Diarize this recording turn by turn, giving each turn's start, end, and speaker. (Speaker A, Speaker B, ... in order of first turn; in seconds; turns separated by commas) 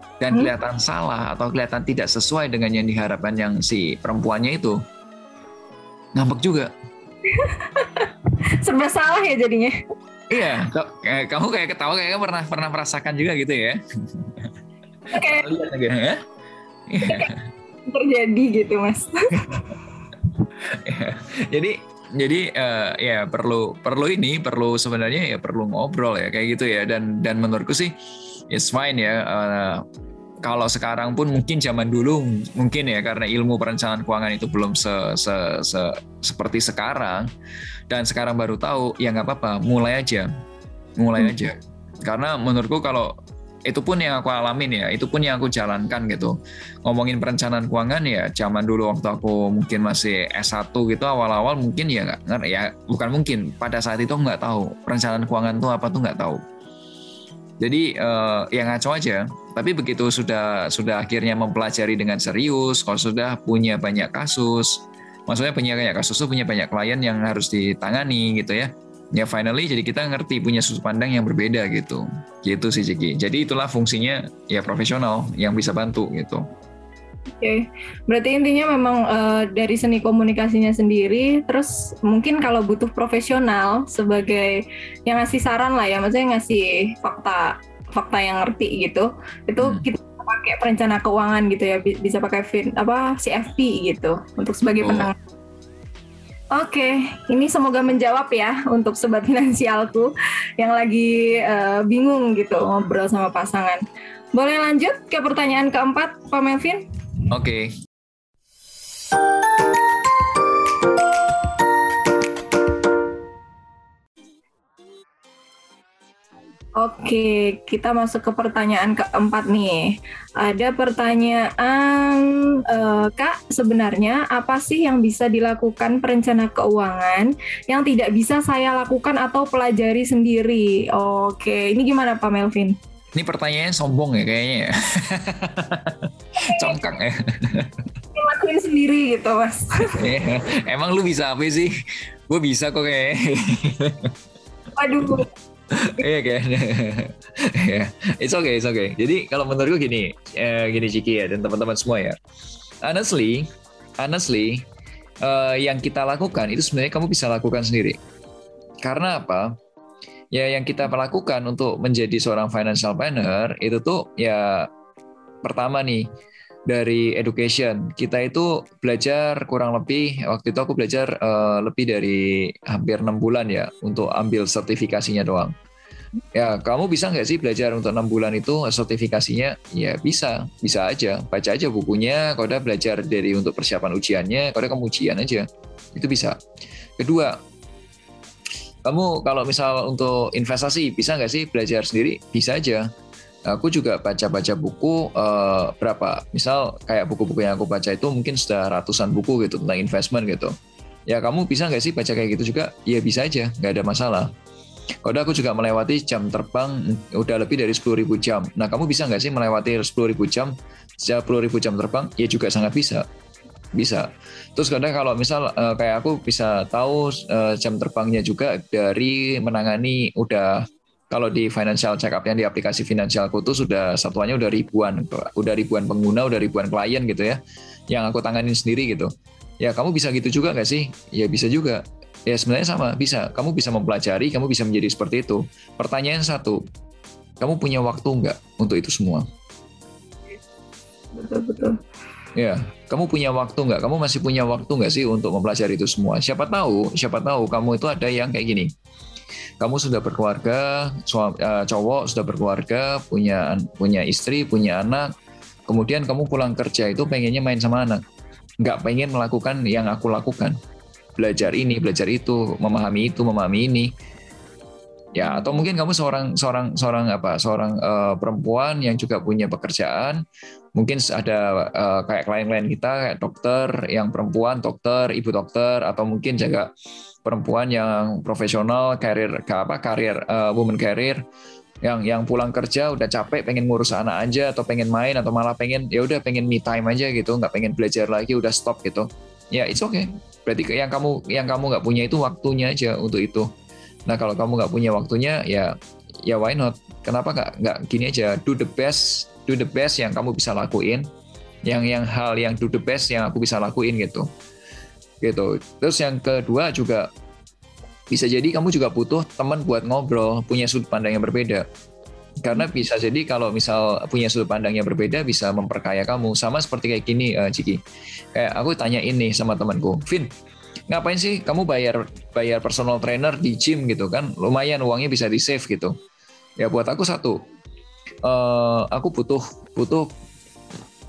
Speaker A: 0.2-4.8, Speaker A: 6.1-6.7, Speaker B: 7.3-8.1, Speaker B: 8.6-9.8, Speaker A: 10.3-14.5, Speaker A: 15.1-16.2, Speaker B: 15.1-15.5, Speaker A: 16.9-17.4, Speaker B: 17.0-17.3, Speaker B: 17.9-19.6, Speaker A: 20.6-28.0, Speaker A: 28.5-29.8, Speaker A: 30.4-37.3, Speaker A: 37.9-40.3, Speaker A: 41.0-43.1, Speaker A: 43.7-56.4, Speaker A: 57.6-76.5, Speaker B: 77.4-95.1, Speaker A: 89.6-89.9, Speaker A: 94.8-95.1, Speaker B: 96.5-103.8, Speaker B: 104.3-106.8, Speaker A: 107.3-107.7, Speaker B: 116.8-119.9, Speaker B: 120.4-132.8, Speaker A: 133.1-137.8, Speaker B: 136.4-136.7, Speaker B: 138.2-140.0, Speaker A: 139.9-141.7, Speaker A: 142.3-144.1, Speaker B: 144.8-145.3, Speaker A: 145.7-152.2, Speaker A: 152.8-153.5, Speaker A: 154.0-154.7, Speaker A: 155.2-158.0, Speaker A: 158.8-159.6, Speaker A: 160.3-164.7, Speaker A: 165.4-166.1, Speaker A: 166.7-175.5, Speaker A: 176.3-186.4, Speaker A: 187.0-187.4, Speaker A: 188.8-192.9, Speaker A: 193.5-200.5, Speaker A: 201.1-204.3, Speaker A: 205.0-213.1, Speaker A: 213.8-227.4, Speaker A: 227.9-236.6, Speaker A: 237.4-239.2, Speaker B: 241.1-241.8, Speaker A: 242.3-248.7, Speaker A: 249.6-255.1, Speaker A: 255.7-258.0, Speaker A: 258.6-260.6, Speaker A: 261.2-263.9, Speaker A: 265.1-270.2, Speaker A: 270.8-276.7, Speaker A: 277.2-281.2, Speaker A: 281.8-293.5, Speaker A: 294.1-301.1, Speaker A: 301.7-304.3, Speaker A: 305.2-307.1, Speaker A: 308.1-311.6, Speaker A: 312.4-317.8, Speaker A: 318.3-320.3, Speaker A: 320.9-325.9, Speaker A: 326.6-327.4, Speaker A: 328.2-330.1